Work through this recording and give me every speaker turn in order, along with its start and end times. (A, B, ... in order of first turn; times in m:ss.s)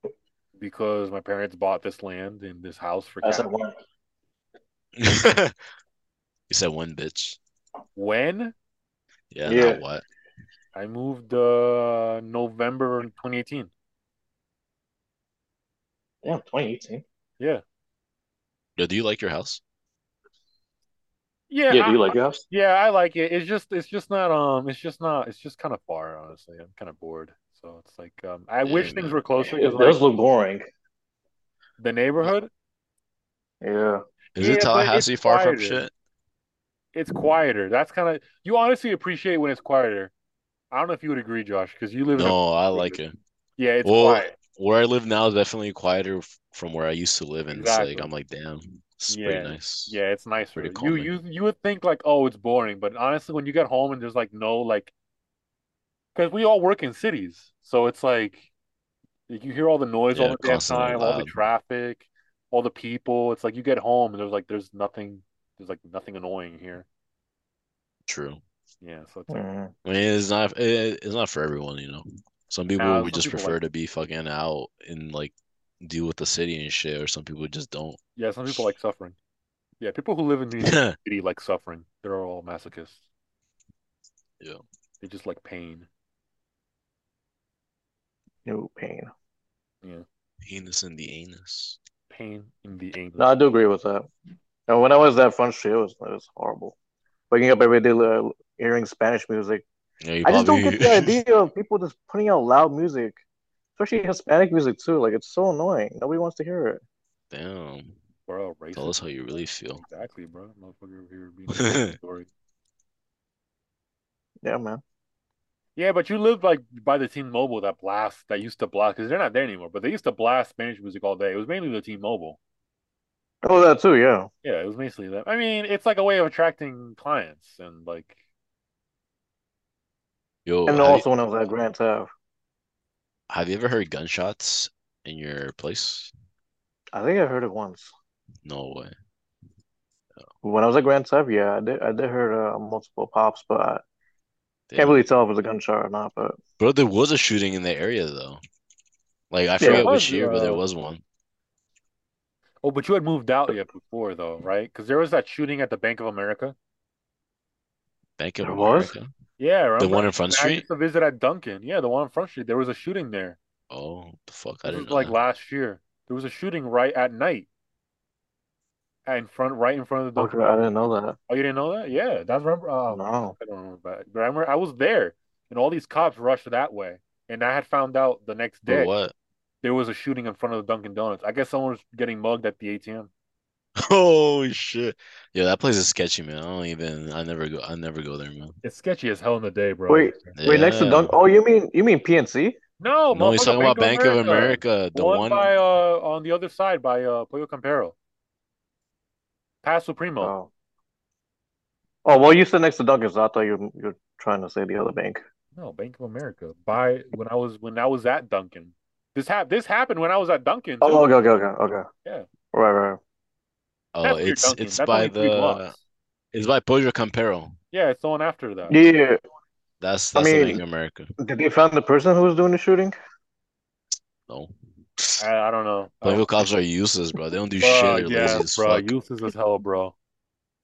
0:00.6-0:03.5 A
0:03.2-0:03.7 B
0:05.0-0:05.6 C
0:06.5-0:07.4 C
0:08.0-0:08.6 A
0:09.3-0:10.0 C
0:09.5-0:09.8 B
0:10.8-0:13.7 A
0:16.2-0:17.0 B
0:18.8-0:19.6 C
0:21.5-0:30.0 A
0:21.7-0:22.4 B
0:28.6-0:29.2 C
0:29.4-0:30.7 B
0:31.8-0:32.5 A
0:33.6-0:34.0 B
0:34.4-0:35.9 C
0:34.4-0:35.8 A
0:36.9-0:40.1 A
0:40.7-0:42.9 A
0:42.2-0:43.1 C
0:43.6-0:44.3 A
0:43.8-0:50.0 C
0:47.5-0:48.1 A
0:49.1-0:54.9 A
0:50.6-0:51.2 C
0:56.2-0:58.5 A
0:59.3-1:06.9 A
1:00.1-1:01.4 C
1:08.1-1:08.4 C
1:08.8-1:09.4 A
1:09.3-1:09.7 B
1:09.8-1:18.7 C
1:12.8-1:13.6 A
1:18.2-1:19.2 A
1:19.8-1:23.0 A
1:20.6-1:21.0 C
1:25.0-1:25.9 A
1:28.5-1:29.1 B
1:30.4-1:31.8 C
1:32.1-1:33.3 A
1:33.2-1:34.1 B
1:34.7-1:36.8 B
1:37.3-1:39.6 B
1:40.0-1:41.2 C
1:40.2-1:43.2 B
1:43.8-1:46.8 B
1:47.3-1:48.0 C
1:48.3-1:49.1 A
1:48.7-1:49.8 C
1:49.7-1:52.3 A
1:51.6-1:51.9 C
1:54.4-1:54.8 B
1:55.8-2:02.4 A
2:03.4-2:04.3 B
2:04.4-2:08.2 A
2:10.5-2:11.1 C
2:10.7-2:12.1 B
2:13.3-2:16.1 C
2:16.9-2:17.9 B
2:18.4-2:18.9 C
2:20.4-2:23.8 B
2:24.7-2:25.0 C
2:24.8-2:26.4 B
2:26.6-2:28.4 C
2:29.3-2:31.0 C
2:29.6-2:29.9 B
2:29.6-2:30.6 A
2:32.6-2:36.6 A
2:38.2-2:39.1 C
2:38.4-2:38.9 B
2:39.4-2:43.4 A
2:39.8-2:40.7 C
2:43.7-2:45.2 C
2:44.6-2:47.5 A
2:49.1-2:50.7 A
2:50.2-2:51.2 B
2:51.3-2:58.9 A
2:52.9-2:53.4 B
2:58.7-2:59.1 C
2:59.6-3:03.1 A
3:03.8-3:08.6 C
3:08.6-3:10.4 A
3:09.9-3:12.6 B
3:10.4-3:11.2 C
3:12.8-3:18.0 A
3:13.1-3:15.5 C
3:19.6-3:20.3 A
3:20.2-3:20.5 B
3:22.0-3:25.2 B
3:25.6-3:31.1 A
3:30.8-3:31.9 B
3:32.5-3:33.0 B
3:33.9-3:35.8 C
3:34.0-3:35.8 A
3:36.3-3:37.6 C
3:37.7-3:38.8 A
3:38.7-3:39.2 B
3:39.8-3:41.1 C
3:40.2-3:40.6 B
3:41.2-3:43.0 B
3:44.3-3:45.2 C
3:45.2-3:46.3 A
3:46.0-3:48.9 C
3:47.6-3:49.9 A